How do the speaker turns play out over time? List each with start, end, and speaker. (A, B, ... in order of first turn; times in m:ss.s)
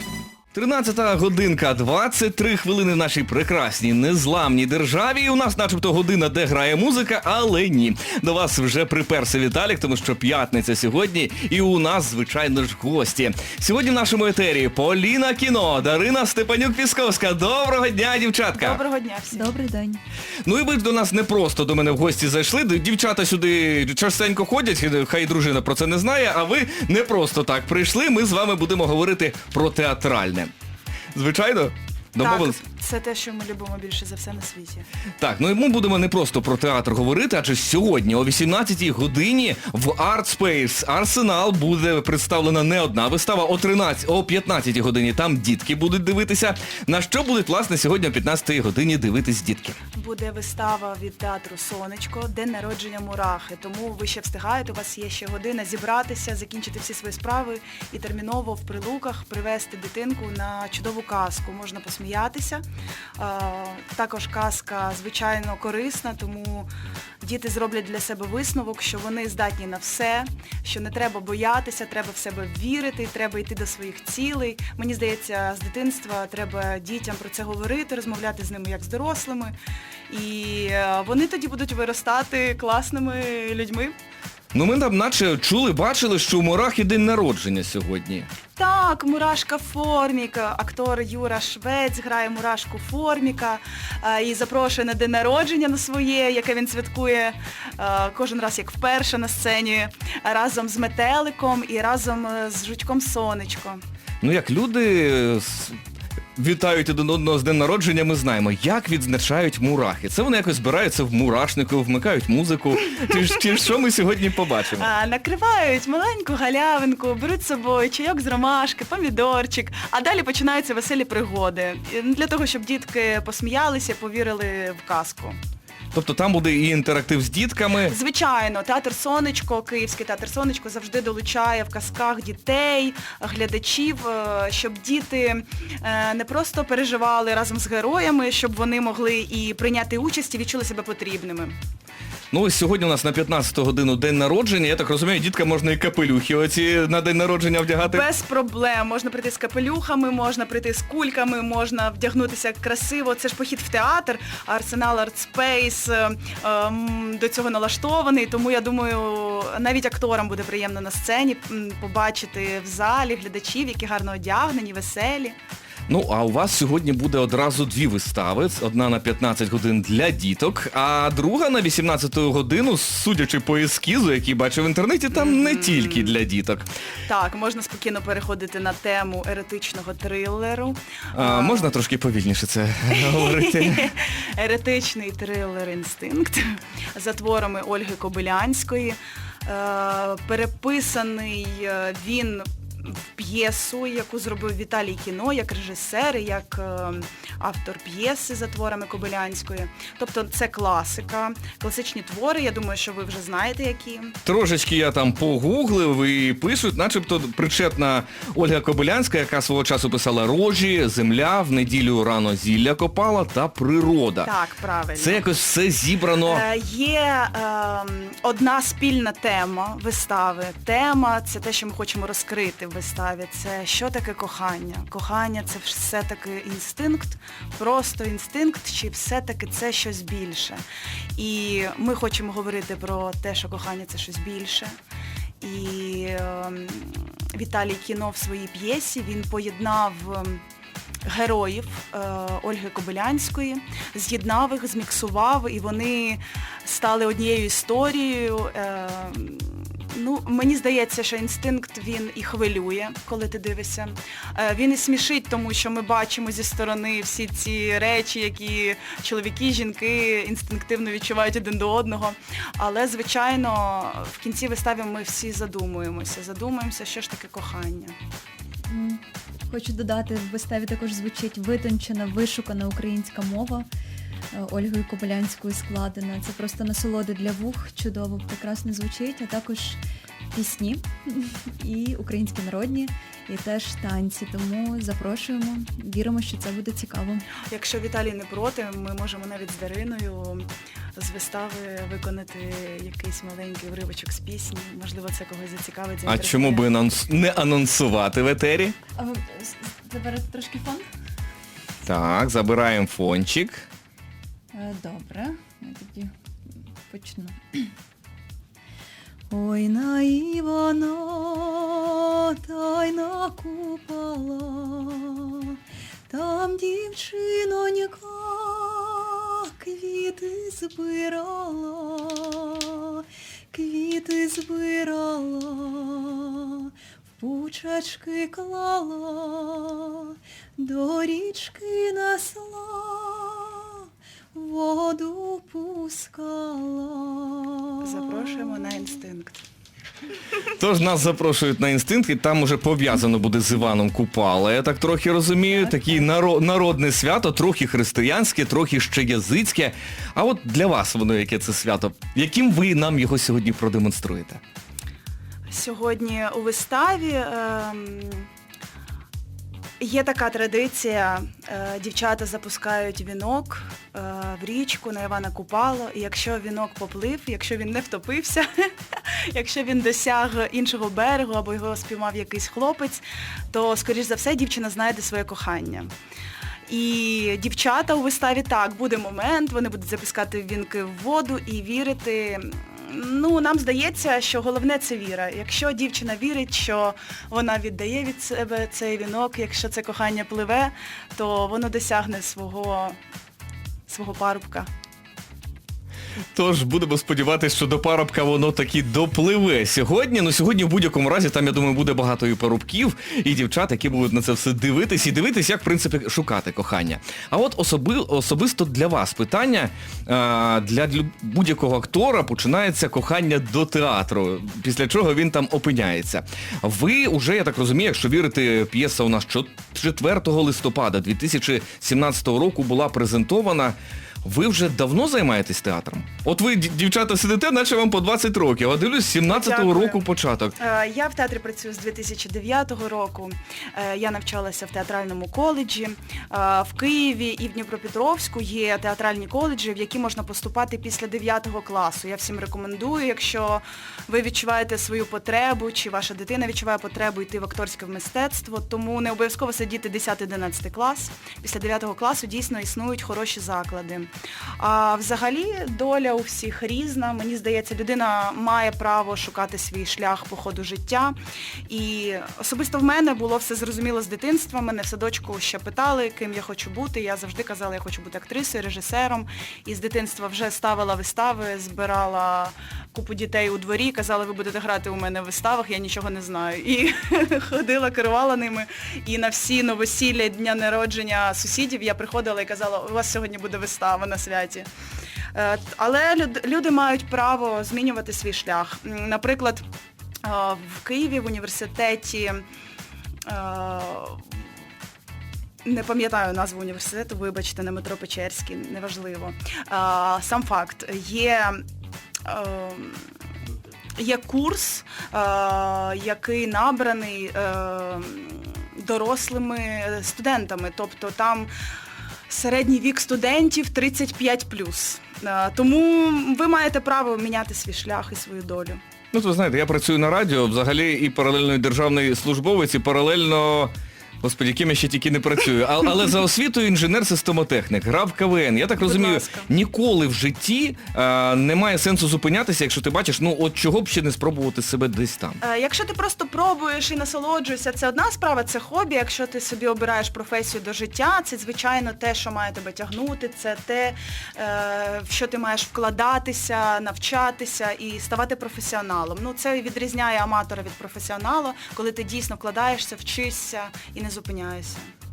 0:00.5-0:18.8 A
0:18.5-0:19.5 B
0:19.3-0:20.0 C
0:20.4-0:30.5 A
0:31.1-0:32.6 A
0:32.2-0:34.8 B
0:35.2-0:49.8 A
0:50.0-1:02.6 B
1:03.2-1:06.7 B
1:07.2-1:19.5 B
1:20.1-1:23.9 B
1:24.5-1:28.3 A
1:28.6-1:43.8 B
1:44.2-1:45.8 A
1:46.4-1:54.9 A
1:54.8-2:05.4 B
2:05.9-2:07.9 A
2:07.9-2:21.6 B
2:22.3-2:28.0 A
2:27.8-2:45.4 B
2:45.9-2:56.7 A
2:55.1-2:56.1 B
2:57.0-3:01.8 B
3:01.1-3:03.9 A
3:03.0-3:24.2 B
3:24.2-3:34.3 A
3:34.2-3:35.2 B
3:35.0-3:36.4 A
3:36.3-3:50.6 B
3:51.2-3:54.8 B
3:55.4-4:00.4 B
4:01.0-4:28.0 B
4:28.7-4:33.7 C
4:34.3-4:39.8 C
4:40.3-4:47.3 C
4:47.4-4:56.6 B
4:56.0-4:58.8 A
4:59.0-5:00.8 C
5:01.8-5:03.6 A
5:04.5-5:06.1 C
5:06.9-5:07.7 C
5:09.3-5:15.6 C
5:16.1-5:38.8 C
5:37.8-5:39.4 B
5:40.6-5:54.4 A
5:55.5-5:58.3 B
5:59.8-6:08.5 B
6:09.3-6:15.9 B
6:16.7-6:33.0 B
6:33.9-6:34.7 B
6:36.3-7:10.6 A
7:09.2-7:10.0 B
7:10.6-7:41.1 B
7:41.7-8:04.7 B
8:05.3-8:09.6 B
8:10.2-8:12.4 B
8:13.3-8:14.2 B
8:15.6-8:21.6 B
8:22.2-8:23.1 B
8:24.0-8:31.5 B
8:32.3-8:38.8 B
8:39.1-8:55.4 A
8:48.8-8:49.5 B
8:55.4-9:14.9 B